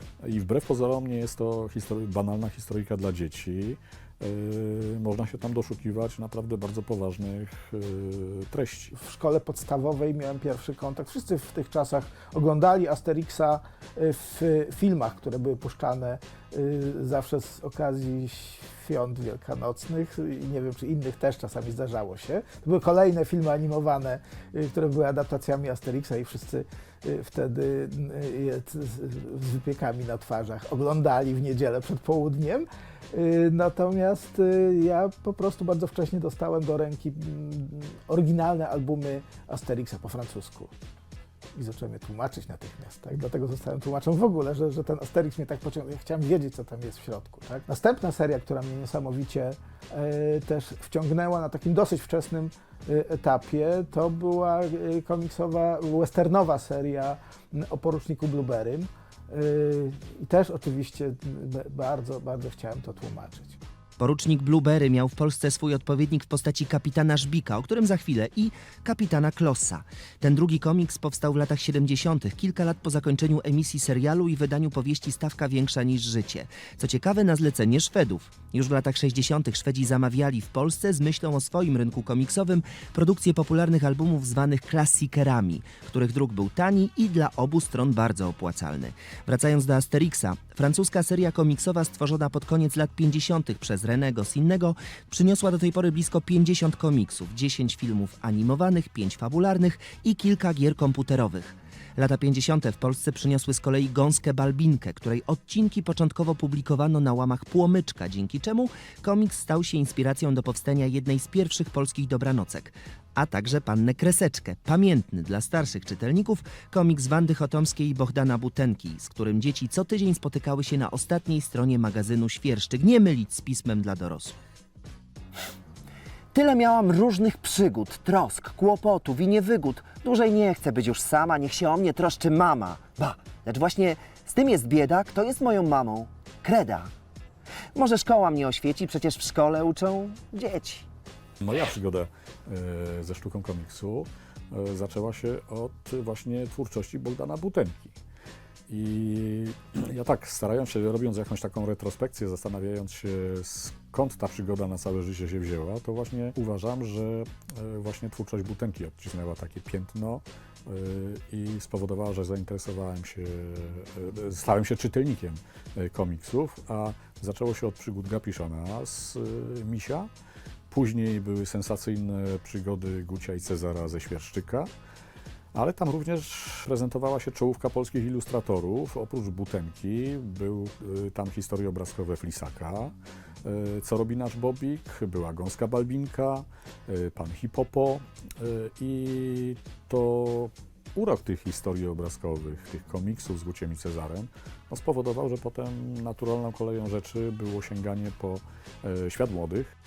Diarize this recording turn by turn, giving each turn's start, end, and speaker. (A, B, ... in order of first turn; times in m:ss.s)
0:00.2-0:08.9 A
0:08.9-0:40.7 B
0:41.6-1:03.6 B
1:04.0-2:04.4 C
2:06.3-2:12.9 D
2:07.9-2:08.7 C
2:09.7-2:10.1 C
2:12.8-2:13.4 C
2:13.4-2:16.1 D
2:14.0-2:15.1 C
2:16.4-2:16.9 C
2:17.8-2:18.8 C
2:18.2-2:20.8 D
2:21.4-2:28.0 A
2:28.7-2:50.1 A
2:50.7-2:54.7 A
2:55.5-3:19.8 A